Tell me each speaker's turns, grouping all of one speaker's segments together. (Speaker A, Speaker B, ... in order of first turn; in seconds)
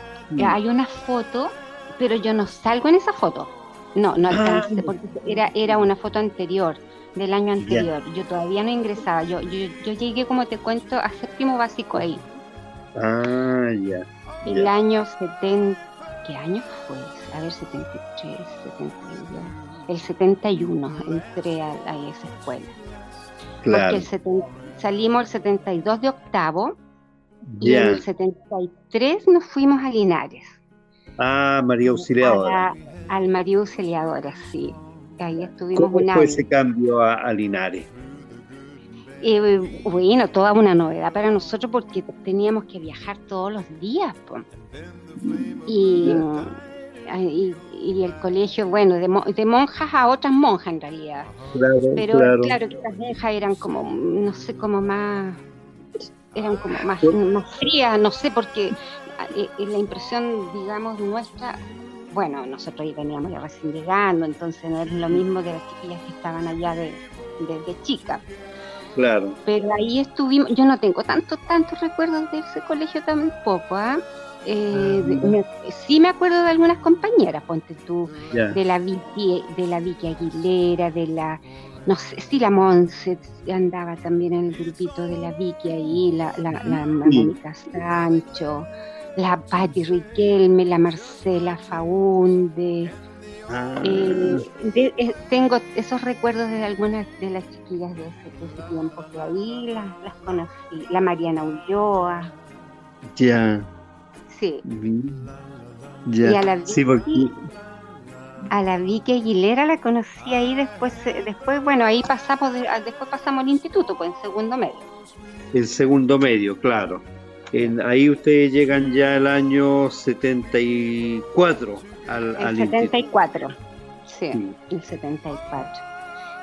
Speaker A: 0.3-0.6, 4.3-4.9, 7.6-7.9, 12.9-14.7, 23.6-24.1, 27.5-28.0, 31.2-32.6, 35.7-37.9, 45.2-46.2, 51.5-52.6, 69.0-69.4, 74.7-75.3, 78.3-78.6, 86.6-87.3, 93.5-94.4, 103.1-103.7, 104.6-105.3, 106.0-107.3, 115.5-123.0
Speaker B: 0.4-12.2, 14.4-22.8, 23.7-26.8, 27.6-30.6, 32.0-36.5, 39.2-44.4, 45.6-46.5, 47.1-51.3, 52.0-55.4, 56.3-61.6, 62.1-68.2, 69.5-92.9, 93.8-102.3, 104.3-104.6, 106.2-107.3, 108.5-114.8, 122.4-123.5, 124.1-125.8